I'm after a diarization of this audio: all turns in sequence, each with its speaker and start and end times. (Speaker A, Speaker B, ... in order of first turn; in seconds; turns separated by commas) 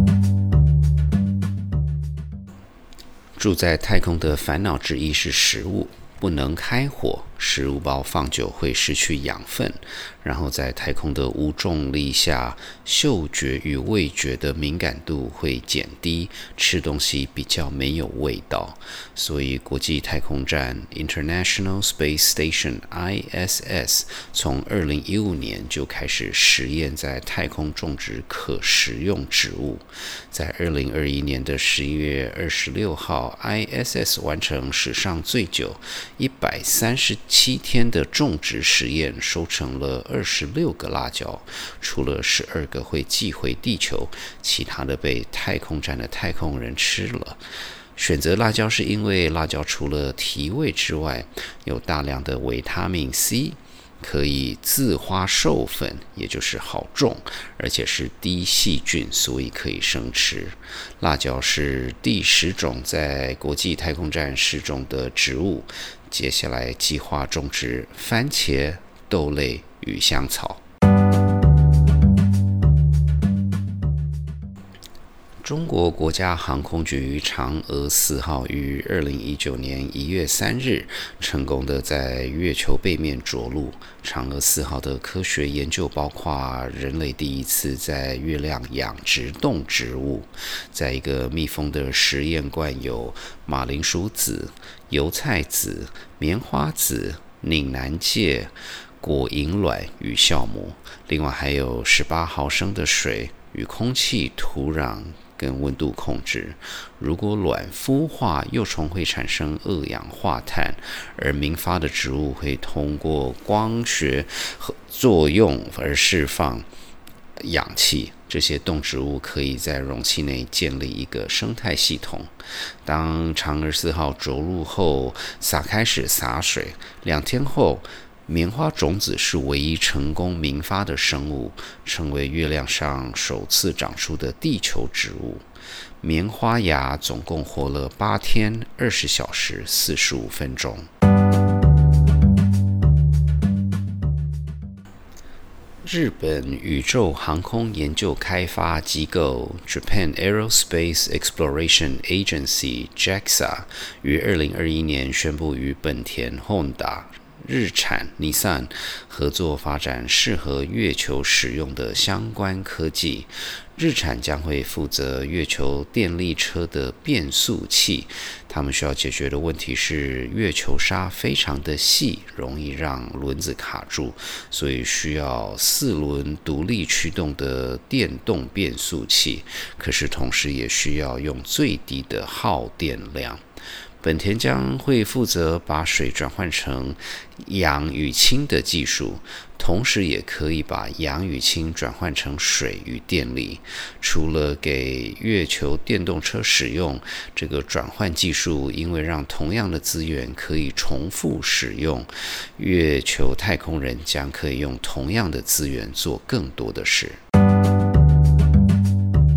Speaker A: 3.4-47.4, Speaker A: 48.0-70.6, Speaker A: 75.4-116.7, Speaker A: 117.4-122.3, Speaker A: 122.8-135.4, Speaker A: 136.0-140.9, Speaker A: 145.8-183.4, Speaker A: 184.0-207.2